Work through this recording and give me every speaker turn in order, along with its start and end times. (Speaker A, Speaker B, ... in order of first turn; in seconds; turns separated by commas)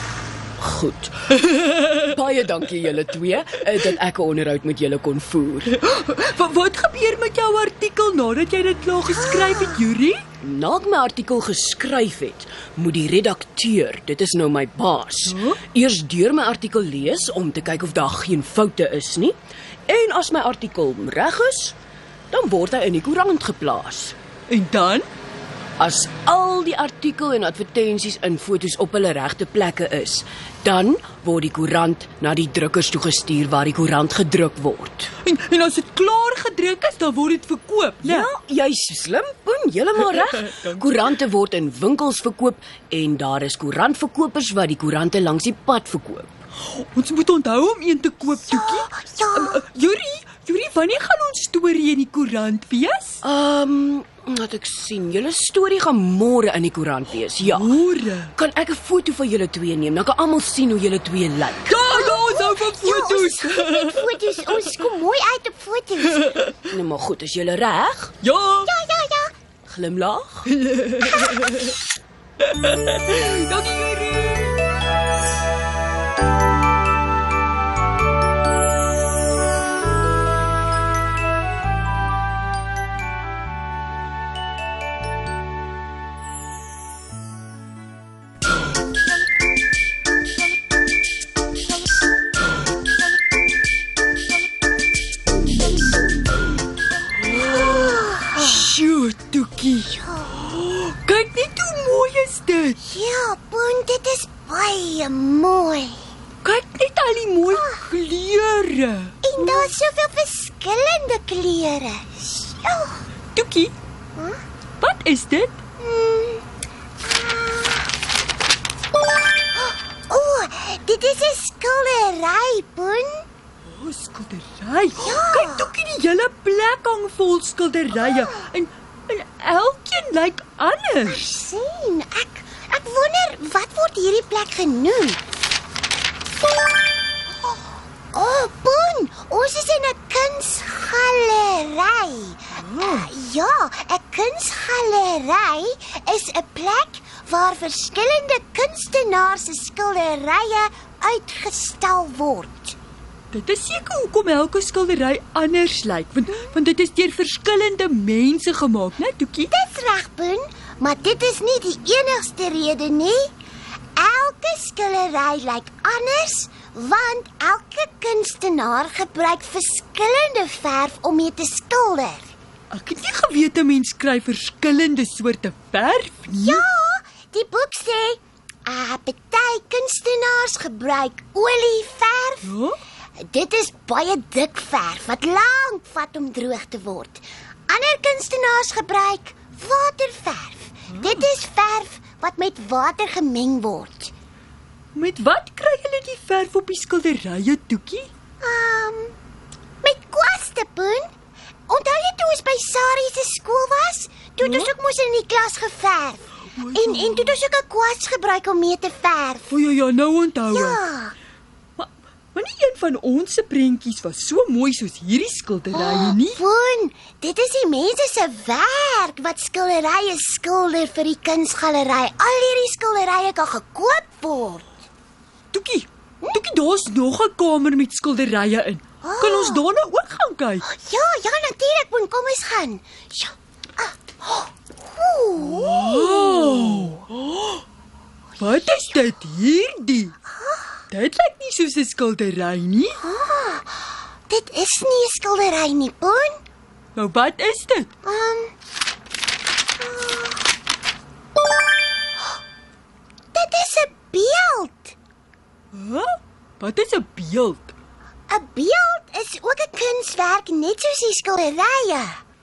Speaker A: 0.6-5.8, Speaker B: 5.8-10.2, Speaker C: 9.1-9.8, Speaker A: 10.4-19.4, Speaker B: 15.2-15.6, Speaker A: 19.9-21.8, Speaker A: 22.3-24.1, Speaker B: 24.5-25.1, Speaker A: 25.8-35.1, Speaker B: 35.2-38.3, Speaker A: 38.0-46.3, Speaker B: 40.4-40.8, Speaker B: 46.7-53.2, Speaker C: 48.5-49.6, Speaker A: 53.2-57.8, Speaker B: 57.4-58.3, Speaker A: 58.3-61.8, Speaker B: 61.6-64.7, Speaker C: 61.9-66.4, Speaker B: 66.2-66.5, Speaker A: 66.7-68.1, Speaker B: 68.2-68.7, Speaker C: 68.6-69.3, Speaker A: 69.7-70.5, Speaker B: 70.5-71.6, Speaker C: 71.0-71.6, Speaker B: 72.5-74.6, Speaker C: 97.4-98.6, Speaker B: 97.5-102.8, Speaker C: 100.0-100.4, Speaker C: 102.8-106.0, Speaker B: 106.4-109.7, Speaker C: 107.5-107.9, Speaker C: 109.2-113.1, Speaker B: 113.3-113.7, Speaker C: 114.2-114.4, Speaker B: 114.8-115.6, Speaker C: 115.8-116.4, Speaker C: 117.0-117.9, Speaker C: 119.5-123.2, Speaker B: 123.7-131.2, Speaker C: 125.0-125.7, Speaker C: 128.0-128.4, Speaker C: 131.0-135.2, Speaker C: 138.1-152.8, Speaker B: 142.6-143.1, Speaker B: 153.3-159.5, Speaker C: 159.5-163.3, Speaker C: 163.9-172.3, Speaker B: 172.7-176.6, Speaker C: 176.4-182.5, Speaker B: 182.4-182.8, Speaker C: 183.2-194.1, Speaker B: 190.9-191.2, Speaker B: 194.9-198.1, Speaker C: 198.4-199.2, Speaker C: 199.8-201.1, Speaker C: 201.7-209.6, Speaker B: 204.4-204.7, Speaker B: 206.5-207.4, Speaker B: 209.5-210.8, Speaker C: 210.5-211.1, Speaker B: 211.8-216.4, Speaker C: 215.7-224.7, Speaker B: 225.5-230.6, Speaker C: 229.0-229.6, Speaker C: 230.6-237.0, Speaker B: 235.4-237.4, Speaker B: 238.4-240.2, Speaker C: 240.3-240.8, Speaker B: 240.9-243.0, Speaker C: 243.0-246.4, Speaker B: 246.9-247.9, Speaker C: 248.0-248.5, Speaker C: 249.8-250.4, Speaker C: 253.3-254.9, Speaker B: 255.7-257.7, Speaker C: 258.3-262.2